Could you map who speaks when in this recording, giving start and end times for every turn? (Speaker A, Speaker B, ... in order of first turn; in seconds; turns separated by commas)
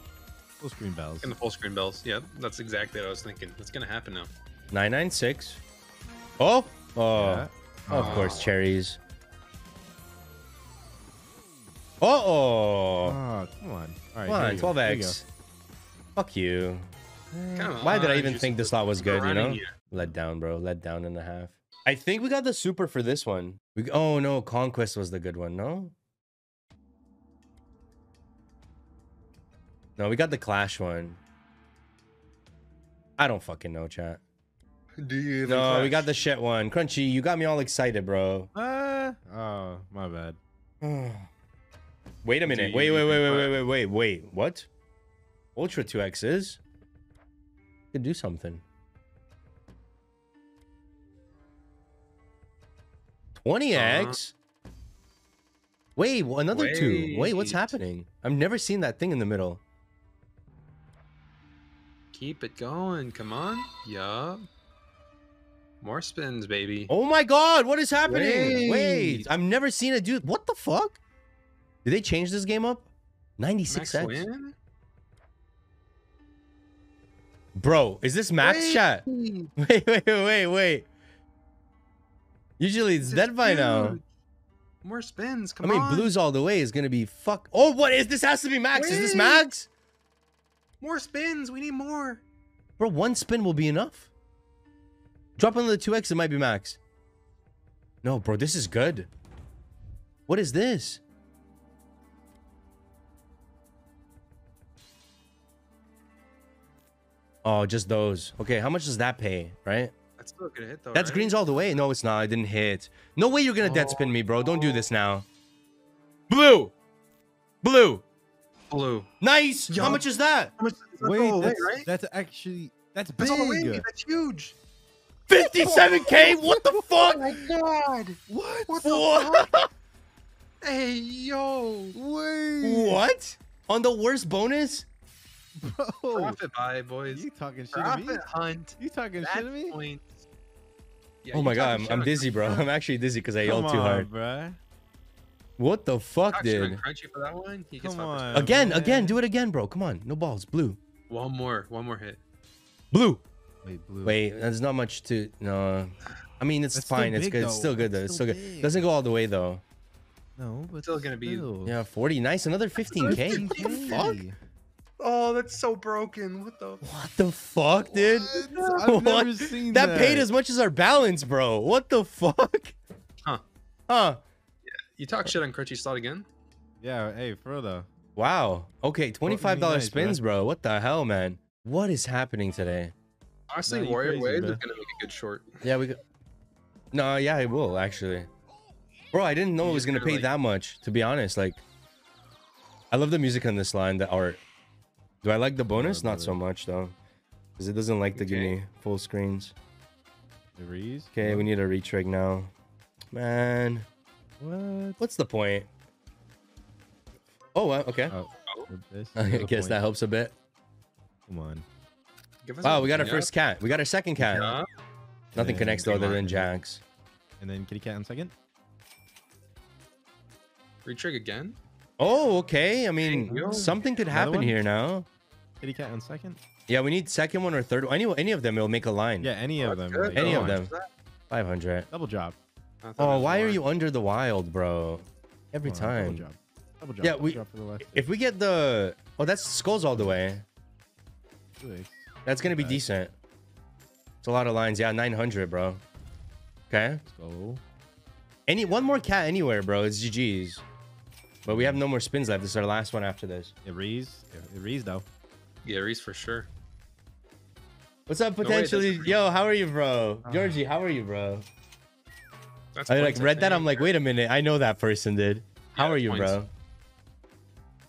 Speaker A: 0.6-1.4, Speaker B: 1.2-4.3, Speaker C: 4.7-5.6, Speaker C: 6.4-9.0, Speaker A: 7.2-8.4, Speaker B: 7.9-8.5, Speaker C: 12.0-13.2, Speaker A: 13.0-15.2, Speaker C: 14.3-15.2, Speaker C: 16.2-16.9, Speaker A: 17.3-17.8, Speaker B: 17.6-19.7, Speaker C: 17.8-25.9, Speaker C: 30.0-31.2, Speaker C: 33.2-34.2, Speaker B: 35.0-36.1, Speaker C: 35.5-38.5, Speaker A: 38.5-40.4, Speaker C: 40.8-41.3, Speaker C: 42.2-44.7, Speaker A: 42.5-43.4, Speaker C: 45.5-46.6, Speaker C: 47.9-48.6, Speaker C: 53.4-54.3, Speaker B: 53.7-54.2, Speaker C: 56.0-59.6, Speaker B: 56.5-57.8, Speaker B: 62.1-64.5, Speaker B: 65.8-66.9, Speaker C: 66.9-71.0, Speaker B: 68.1-69.3, Speaker C: 71.8-74.2, Speaker B: 73.7-74.5, Speaker C: 77.6-79.0, Speaker B: 78.4-79.5, Speaker C: 79.6-80.9, Speaker C: 82.6-84.0, Speaker B: 83.0-84.0, Speaker B: 84.8-86.1, Speaker C: 85.6-89.7, Speaker B: 88.7-89.5, Speaker B: 90.8-92.2, Speaker C: 92.8-94.1, Speaker C: 95.4-96.8, Speaker C: 98.0-99.1, Speaker C: 100.3-101.0, Speaker C: 107.4-109.9, Speaker B: 110.2-111.8, Speaker C: 110.9-115.3, Speaker B: 113.6-114.8, Speaker C: 116.3-116.7, Speaker C: 117.6-118.0, Speaker B: 118.7-119.1, Speaker C: 119.2-120.5, Speaker B: 119.7-120.0, Speaker B: 120.6-121.9, Speaker A: 121.0-123.9, Speaker B: 123.2-124.6, Speaker C: 125.3-127.5, Speaker B: 125.6-129.5, Speaker A: 128.3-128.8, Speaker C: 128.8-129.7, Speaker B: 130.6-132.0, Speaker A: 131.9-133.0, Speaker C: 132.6-134.9, Speaker A: 135.6-136.4, Speaker B: 136.2-140.1, Speaker A: 137.1-138.2, Speaker A: 138.8-139.8, Speaker B: 141.2-142.7, Speaker C: 141.3-144.1, Speaker A: 143.4-144.6, Speaker C: 145.6-146.8, Speaker B: 146.3-148.6, Speaker A: 147.8-149.2, Speaker C: 148.3-150.8, Speaker B: 151.1-152.2, Speaker C: 152.9-153.2, Speaker A: 153.6-154.2, Speaker C: 154.0-159.6, Speaker A: 156.7-158.9, Speaker A: 160.4-161.8, Speaker B: 160.8-161.5, Speaker C: 161.7-164.2, Speaker B: 162.9-164.1, Speaker A: 162.9-164.4, Speaker B: 165.0-166.8, Speaker C: 166.8-172.8, Speaker A: 168.1-170.3, Speaker B: 168.4-168.9, Speaker C: 173.9-174.2, Speaker B: 174.7-176.3, Speaker A: 176.8-177.9, Speaker C: 178.2-182.9, Speaker A: 179.2-180.2, Speaker B: 183.5-185.6, Speaker A: 183.6-184.6, Speaker C: 185.6-186.0, Speaker C: 186.9-188.3, Speaker C: 189.1-191.6, Speaker B: 189.6-190.3, Speaker C: 192.9-194.4, Speaker C: 195.2-196.9, Speaker A: 195.7-196.4, Speaker C: 197.6-199.6, Speaker B: 198.2-198.5, Speaker A: 200.6-201.5, Speaker C: 201.2-202.5, Speaker C: 203.1-203.9, Speaker A: 204.4-205.0, Speaker C: 205.0-205.7, Speaker C: 207.6-208.2, Speaker A: 208.1-209.8, Speaker C: 209.2-210.3, Speaker A: 211.3-211.7, Speaker B: 212.4-213.3, Speaker C: 212.6-214.6, Speaker B: 214.2-214.7, Speaker A: 215.3-216.6, Speaker C: 215.3-216.8, Speaker A: 217.4-218.3, Speaker B: 220.8-221.6, Speaker C: 222.0-225.1, Speaker B: 223.0-223.8, Speaker A: 223.3-224.6, Speaker A: 225.6-226.4, Speaker C: 226.7-229.3, Speaker A: 229.2-230.6, Speaker B: 229.6-230.9, Speaker C: 230.2-230.7, Speaker C: 231.3-231.9, Speaker A: 231.9-232.4, Speaker B: 232.8-233.6, Speaker C: 233.0-236.3, Speaker A: 235.6-238.1, Speaker C: 237.0-240.4, Speaker A: 239.9-240.3, Speaker A: 241.6-242.9, Speaker C: 242.2-243.1, Speaker C: 244.2-245.8, Speaker C: 246.7-247.0, Speaker A: 247.1-247.6, Speaker C: 248.5-250.6, Speaker A: 251.4-251.8, Speaker C: 251.5-253.5, Speaker A: 253.7-255.1, Speaker B: 255.6-256.5, Speaker C: 258.1-261.5, Speaker B: 258.4-259.2, Speaker A: 260.2-260.6, Speaker B: 262.8-263.9, Speaker C: 262.9-266.5, Speaker B: 265.8-266.4